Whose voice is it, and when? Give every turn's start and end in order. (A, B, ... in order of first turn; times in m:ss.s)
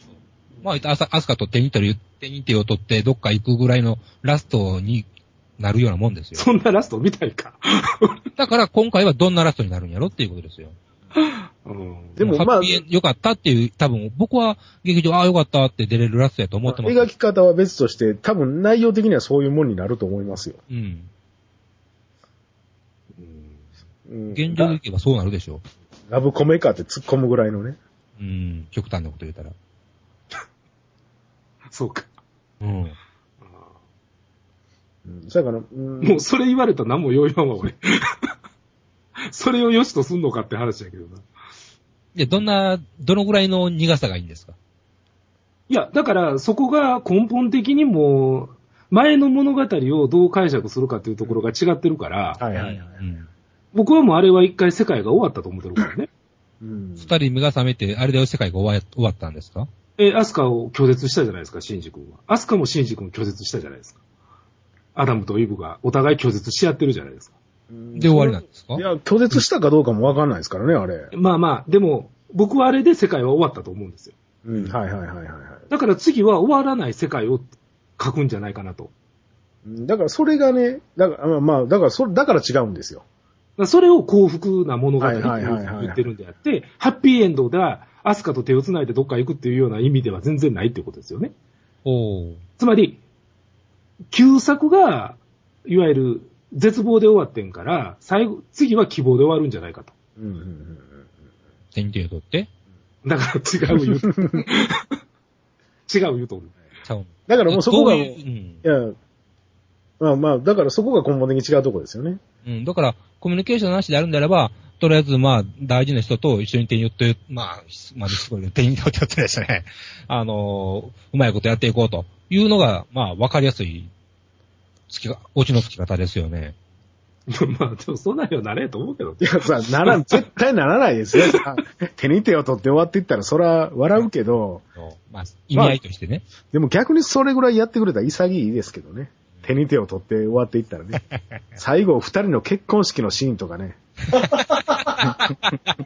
0:00.6-0:05.1 A
0:05.6-0:06.4 A
0:06.3-0:08.2 B
0:08.4-0:10.8 A
0:11.2-0:12.2 B
0:12.2-0:12.8 C
0:12.2-0:17.1 A
0:16.6-0:20.6 C
0:20.7-0:21.1 A
0:23.2-0:23.6 B
0:24.1-0:24.8 C
0:24.3-0:25.6 A
0:26.1-0:27.8 C
0:28.2-0:29.5 A
0:31.7-0:32.1 B
0:32.6-0:33.0 A
0:33.4-0:33.7 B
0:35.0-0:36.2 C
0:36.0-0:38.3 B
0:39.3-0:41.2 B
0:42.1-0:44.5 A
0:45.7-0:52.4 B
0:52.4-0:53.0 C
0:52.5-0:53.3 A
0:53.7-0:56.1 B
0:56.6-0:57.1 C
0:57.0-0:59.7 A
1:00.0-1:04.0 B
1:04.9-1:07.3 B
1:07.7-1:11.1 C
1:08.0-1:09.4 A
1:11.1-1:14.7 B
1:14.4-1:15.7 C
1:15.7-1:18.9 B
1:19.6-1:23.0 C
1:23.6-1:31.3 B
1:25.0-1:26.0 C
1:31.8-1:32.4 A
1:32.6-1:33.0 B
1:34.1-1:39.9 B
1:40.2-1:40.9 C
1:41.7-1:42.5 A
1:43.0-1:45.0 B
1:43.8-1:44.4 C
1:45.9-1:46.5 B
1:46.8-1:48.6 A
1:47.3-1:49.0 C
1:50.0-1:52.2 C
1:52.4-2:03.9 A
2:04.9-2:06.5 A
2:07.3-2:10.2 B
2:09.2-2:14.6 C
2:14.8-2:16.2 A
2:15.5-2:15.8 C
2:16.5-2:21.0 C
2:21.6-2:25.0 C
2:24.2-2:25.7 A